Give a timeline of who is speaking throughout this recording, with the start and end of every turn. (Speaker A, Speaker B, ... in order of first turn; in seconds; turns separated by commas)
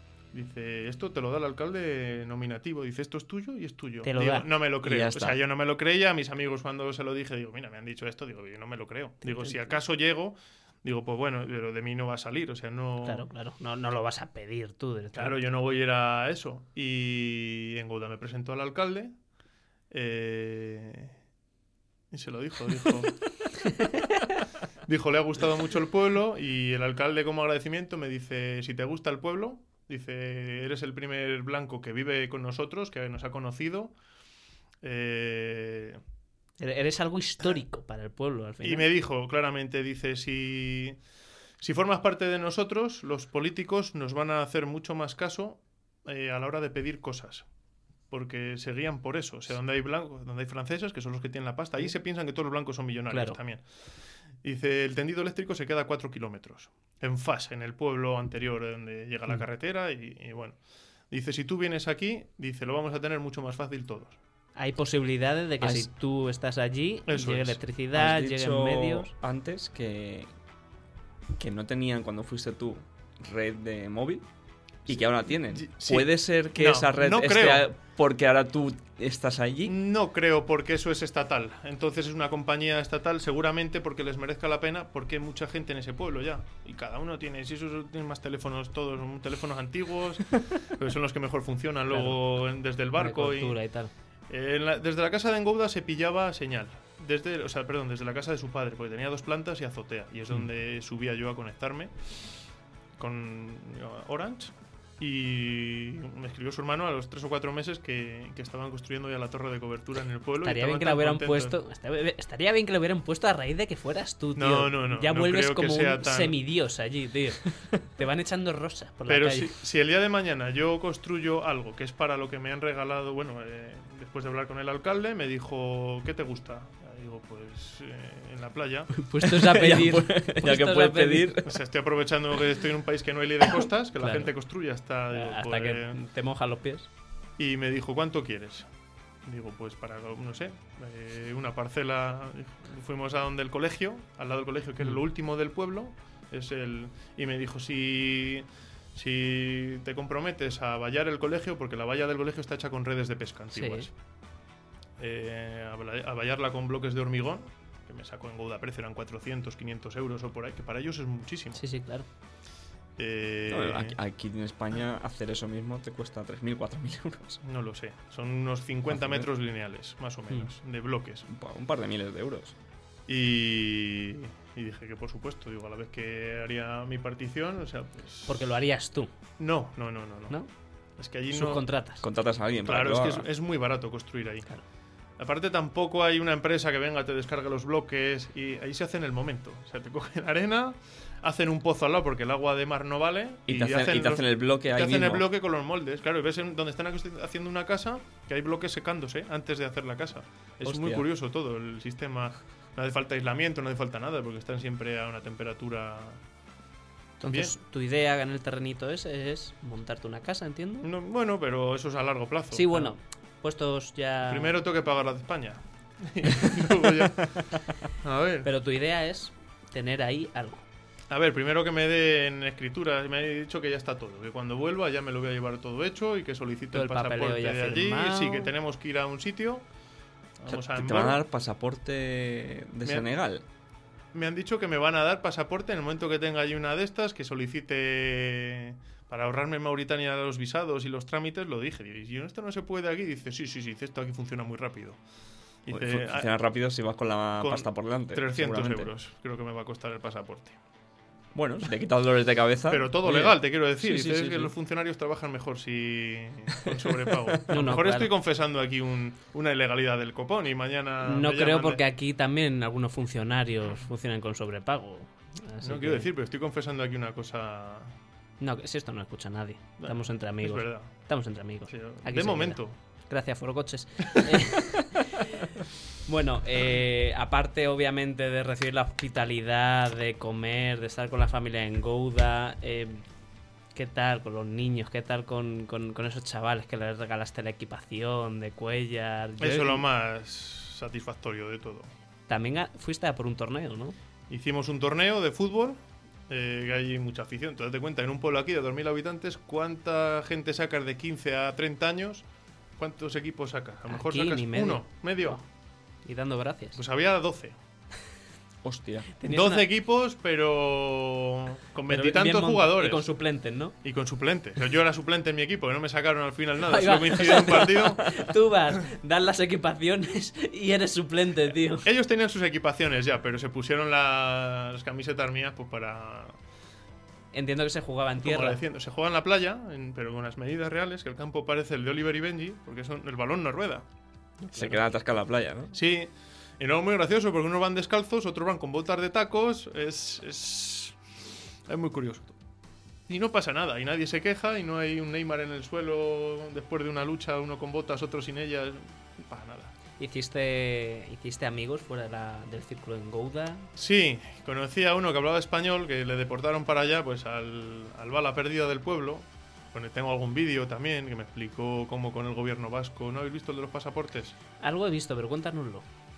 Speaker A: 0.3-13.2, Speaker B: 4.0-4.5, Speaker C: 4.8-5.4, Speaker B: 9.2-9.7, Speaker B: 13.0-15.4, Speaker A: 15.1-19.1, Speaker A: 19.9-21.1, Speaker A: 22.1-23.2, Speaker B: 23.6-24.3, Speaker A: 24.8-33.9, Speaker A: 34.8-36.0, Speaker B: 36.6-38.9, Speaker A: 38.6-41.0, Speaker A: 41.6-47.5, Speaker A: 48.1-53.6, Speaker B: 53.1-53.4, Speaker A: 54.4-60.6, Speaker A: 61.1-64.2, Speaker B: 64.5-69.1, Speaker C: 65.6-65.9, Speaker A: 67.1-67.6, Speaker C: 67.9-70.3, Speaker C: 71.4-74.2, Speaker C: 74.8-79.8, Speaker A: 75.4-77.7, Speaker A: 79.7-93.6, Speaker B: 91.9-92.2, Speaker B: 93.0-93.9, Speaker A: 94.3-101.9, Speaker A: 103.0-111.6, Speaker B: 110.4-119.5, Speaker A: 114.3-116.3, Speaker A: 119.1-128.9, Speaker B: 128.9-131.3, Speaker C: 129.2-131.5, Speaker A: 131.4-136.0, Speaker B: 134.0-134.3, Speaker B: 135.1-136.9, Speaker A: 137.4-138.7, Speaker A: 139.2-153.9, Speaker B: 153.5-153.9, Speaker A: 155.0-161.6, Speaker B: 161.5-162.1, Speaker A: 163.0-164.0, Speaker C: 163.5-167.4, Speaker A: 167.4-171.2, Speaker C: 168.9-169.2, Speaker C: 171.3-172.5, Speaker A: 173.1-178.4, Speaker B: 178.2-179.1, Speaker A: 179.4-180.4, Speaker A: 181.0-181.6, Speaker B: 181.3-182.0, Speaker C: 182.0-183.3, Speaker A: 182.6-184.5, Speaker A: 185.2-206.2, Speaker C: 193.5-195.2, Speaker C: 200.7-201.0, Speaker B: 207.2-210.9, Speaker A: 210.8-212.9, Speaker B: 212.5-214.5, Speaker A: 214.3-218.5, Speaker B: 218.4-220.6, Speaker A: 221.1-229.6, Speaker B: 226.7-228.5, Speaker A: 230.4-231.2, Speaker C: 230.5-233.4, Speaker A: 234.1-245.0, Speaker A: 245.7-246.3, Speaker C: 245.7-248.9, Speaker A: 247.4-250.6, Speaker C: 251.3-254.5, Speaker A: 252.7-261.8, Speaker C: 256.6-257.3, Speaker B: 257.5-258.1, Speaker B: 261.0-266.1, Speaker A: 265.6-267.9, Speaker B: 268.4-275.5, Speaker A: 269.8-271.1, Speaker A: 271.7-272.8, Speaker A: 274.1-274.5, Speaker B: 276.1-283.0, Speaker B: 283.7-289.8, Speaker A: 289.4-291.9, Speaker B: 292.3-293.9, Speaker A: 294.3-302.2, Speaker A: 302.8-305.4, Speaker B: 303.9-305.4, Speaker B: 306.0-306.8, Speaker A: 306.8-307.6, Speaker C: 308.6-309.1, Speaker B: 309.2-309.6, Speaker A: 309.3-313.1, Speaker B: 311.9-313.7, Speaker A: 313.8-318.3, Speaker B: 316.6-321.9, Speaker A: 321.8-326.4, Speaker B: 327.3-328.6, Speaker A: 328.2-333.8, Speaker B: 334.4-334.8, Speaker C: 334.5-335.7, Speaker A: 335.7-340.9, Speaker A: 341.7-342.4, Speaker A: 343.1-349.7, Speaker B: 350.0-353.7, Speaker A: 353.8-364.4, Speaker B: 364.6-365.8